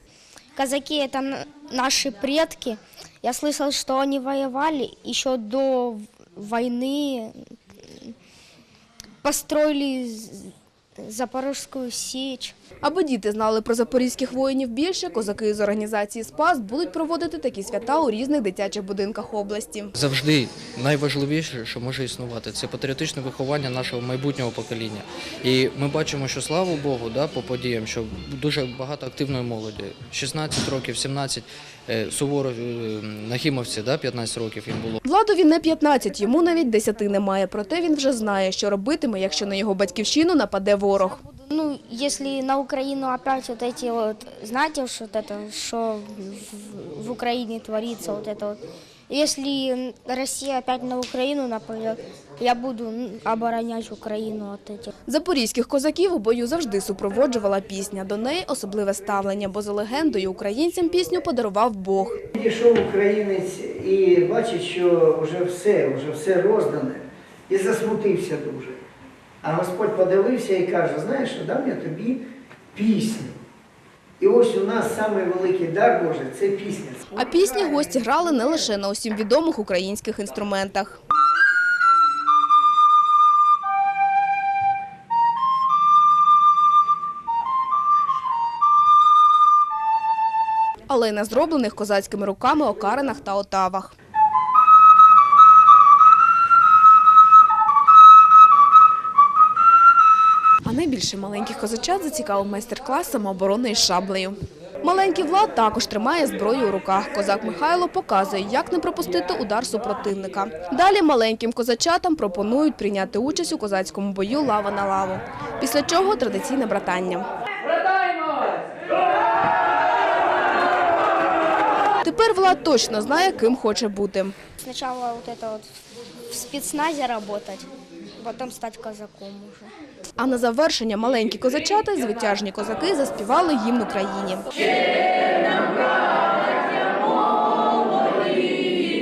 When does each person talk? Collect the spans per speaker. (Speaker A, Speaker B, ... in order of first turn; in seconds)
Speaker A: 0.6-8.1, 9.2-12.6, 41.2-54.9, 124.6-125.7, 126.3-129.7
Speaker B: 12.8-19.9, 35.0-41.2, 55.1-62.2, 77.2-81.0, 90.9-94.0, 100.6-117.3, 122.0-124.4, 130.2-134.6
Speaker C: 19.9-35.0
Speaker D: 62.3-68.8, 69.4-72.2, 72.7-73.3, 74.2-78.0